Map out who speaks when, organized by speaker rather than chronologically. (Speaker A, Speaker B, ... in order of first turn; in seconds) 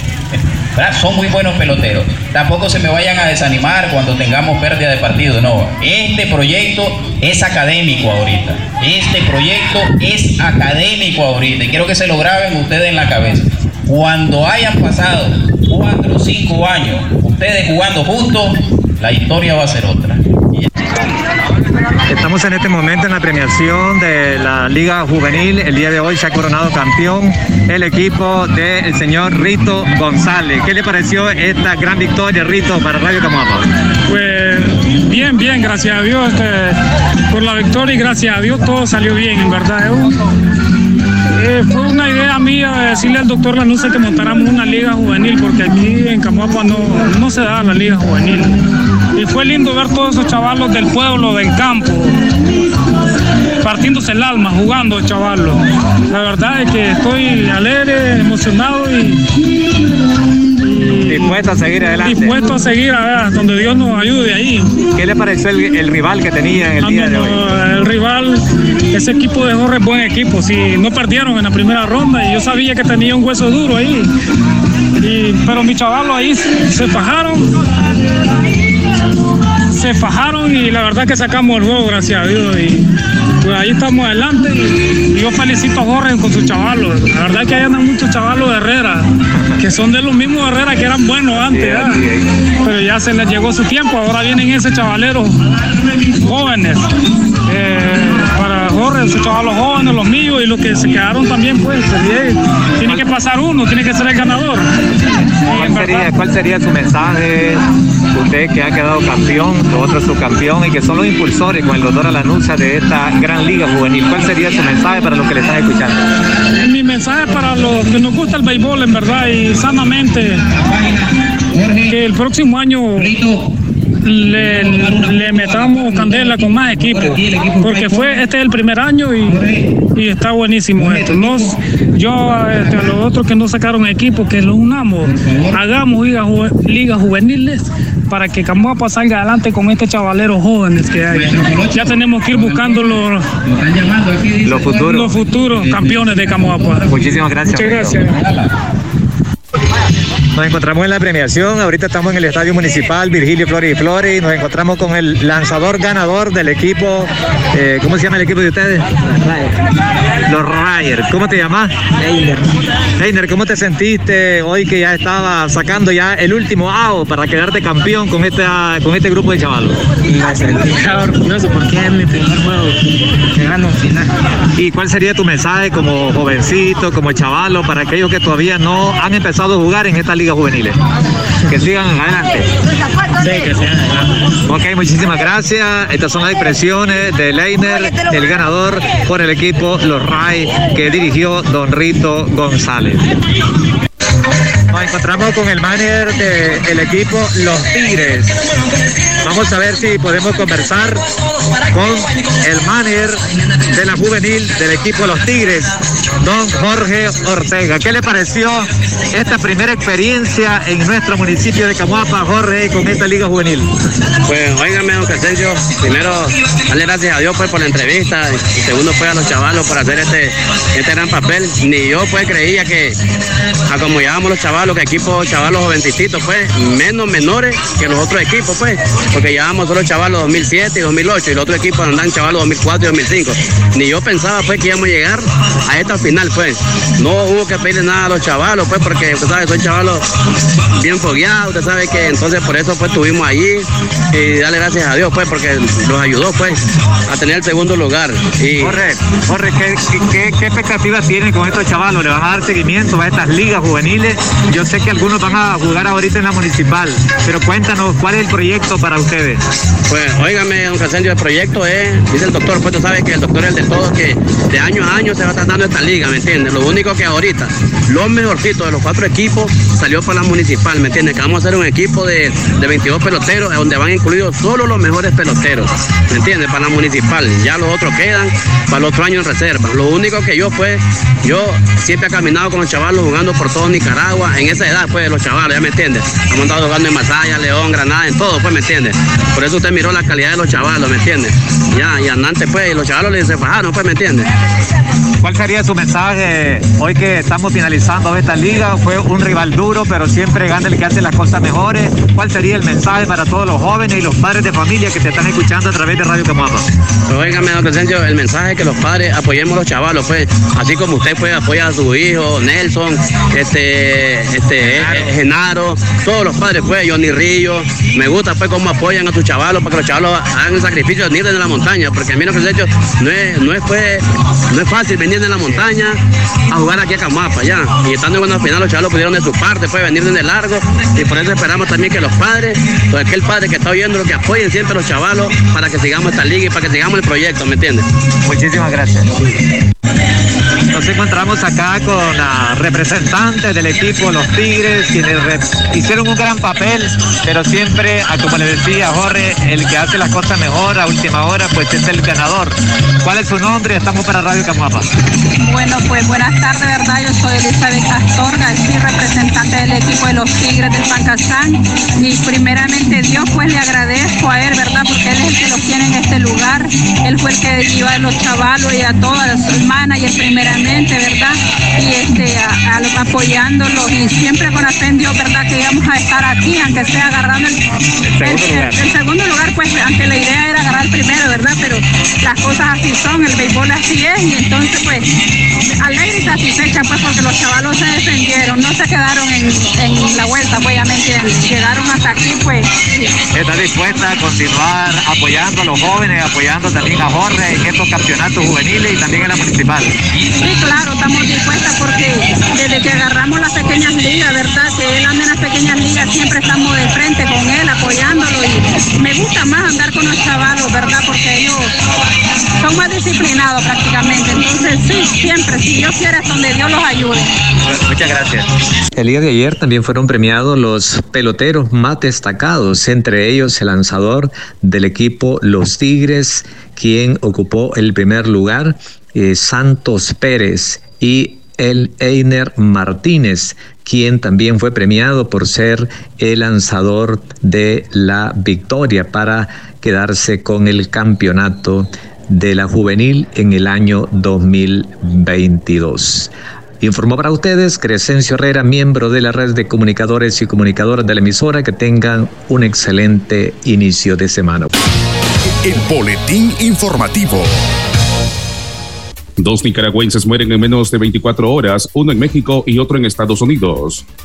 Speaker A: 0.3-20.7, 120.5-121.9, 123.0-123.5, 127.2-127.7, 135.2-135.6, 141.1-142.4, 143.4-144.6, 145.7-145.9
Speaker B: 22.1-33.7, 61.1-62.4, 64.9-67.4, 91.3-92.2, 105.5-116.0, 144.4-145.2, 146.9-148.1, 150.3-159.0, 160.2-161.7, 162.9-169.8, 174.5-180.8, 181.5-182.5, 184.4-193.0, 194.7-198.3, 199.2-201.0, 201.7-213.7, 248.6-259.4, 295.2-306.6, 314.7-315.1, 338.2-339.1, 340.7-354.9, 378.1-378.8, 393.3-399.9, 417.7-418.5
Speaker C: 34.1-36.8, 37.3-40.1, 41.3-48.5, 49.1-52.1, 53.6-59.2, 60.6-61.4, 62.0-64.8, 66.8-74.1, 75.0-77.5, 79.7-82.8, 83.4-89.0, 89.6-92.0, 92.6-95.3, 96.2-96.9, 97.5-104.7, 105.5-106.1, 116.5-120.4, 121.9-123.1, 124.0-129.4, 129.9-143.3, 144.8-148.2
Speaker D: 159.1-159.5, 162.0-162.5, 170.1-172.8, 173.3-174.1, 183.2-184.1
Speaker E: 214.2-222.9, 223.7-240.0, 240.7-248.8, 259.9-294.3, 307.1-326.0, 326.5-337.8
Speaker F: 355.4-377.6, 378.2-385.1, 385.8-393.1, 400.4-411.7, 412.6-417.3
Speaker G: 418.9-454.7
Speaker H: 455.6-457.6
Speaker I: 459.4-464.1